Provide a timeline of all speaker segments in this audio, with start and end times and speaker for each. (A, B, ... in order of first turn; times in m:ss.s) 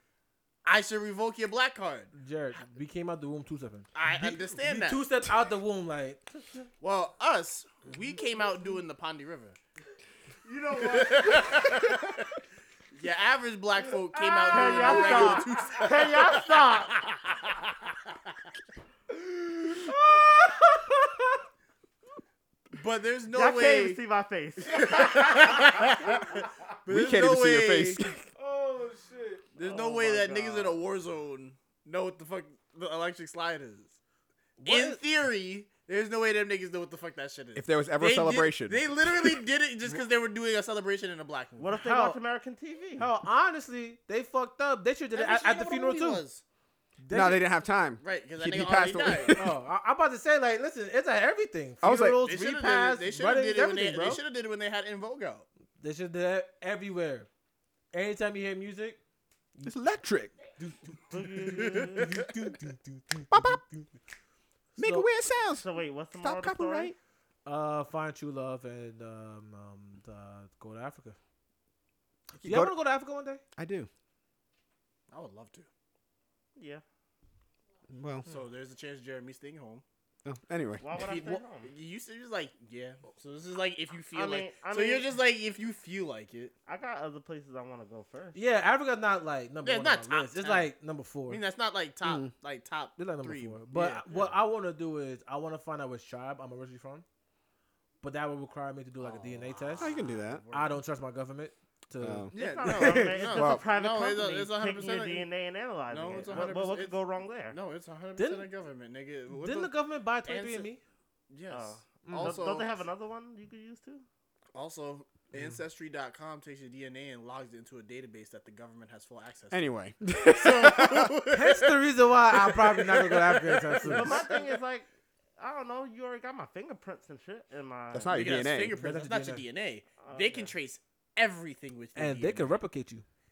0:00.6-0:02.1 A
0:02.1-0:06.2 B
0:03.9-0:05.0 A
0:06.8-0:09.6 A
0:10.4-0:11.8 C
0:10.8-0:12.2 A
0:12.9-0:17.6 A
0:14.4-0:15.7 B
0:14.4-0:17.1 C
0:19.1-0:21.4 B
0:22.7-0:24.0 A
0:23.3-0:25.8 C
0:24.6-0:28.0 A
0:26.9-0:28.2 D
0:28.3-0:29.4 B
0:29.5-0:33.9 A
0:29.6-0:30.8 C
0:34.6-0:35.0 B
0:34.6-0:41.7 A
0:37.5-0:39.4 D
0:41.6-0:43.1 C
0:41.8-0:42.2 B
0:43.0-0:46.2 B
0:45.1-0:46.4 A
0:47.0-0:47.5 B
0:47.1-0:49.6 D
0:48.0-0:49.4 A
0:49.3-0:54.2 B
0:51.8-0:52.2 D
0:52.2-0:55.4 A
0:55.8-0:57.3 B
0:57.9-0:59.0 B
0:59.6-1:00.3 D
1:00.6-1:03.8 B
1:01.1-1:02.3 C
1:01.5-1:02.1 A
1:03.3-1:03.6 D
1:04.8-1:05.1 B
1:04.8-1:07.0 D
1:05.6-1:06.9 C
1:07.4-1:11.2 B
1:12.4-1:12.8 D
1:12.4-1:13.4 B
1:13.6-1:13.9 D
1:15.1-1:15.7 A
1:16.6-1:16.8 C
1:17.9-1:18.3 D
1:18.2-1:19.8 A
1:20.2-1:20.8 D
1:20.8-1:21.7 C
1:20.9-1:26.5 A
1:24.1-1:25.1 C
1:26.7-1:28.4 C
1:28.3-1:31.4 B
1:29.6-1:30.7 A
1:31.3-1:34.4 A
1:32.0-1:32.3 D
1:33.0-1:37.0 B
1:38.0-1:39.9 B
1:39.0-1:40.8 A
1:39.8-1:40.4 D
1:40.5-1:43.2 B
1:42.0-1:42.3 D
1:42.3-1:45.3 A
1:42.3-1:47.6 C
1:43.2-1:43.6 D
1:45.9-1:49.7 A
1:46.1-1:46.5 B
1:48.2-1:48.5 B
1:49.3-1:50.8 B
1:50.2-1:50.7 A
1:51.3-1:52.7 A
1:51.5-1:54.0 C
1:52.0-1:52.4 B
1:54.5-1:59.6 A
1:59.5-2:01.1 D
2:00.3-2:01.8 A
2:01.3-2:04.2 B
2:02.3-2:04.6 A
2:03.9-2:04.9 C
2:05.4-2:08.4 C
2:07.9-2:08.7 D
2:08.1-2:12.5 A
2:08.7-2:09.4 B
2:10.0-2:10.5 C
2:11.9-2:13.0 B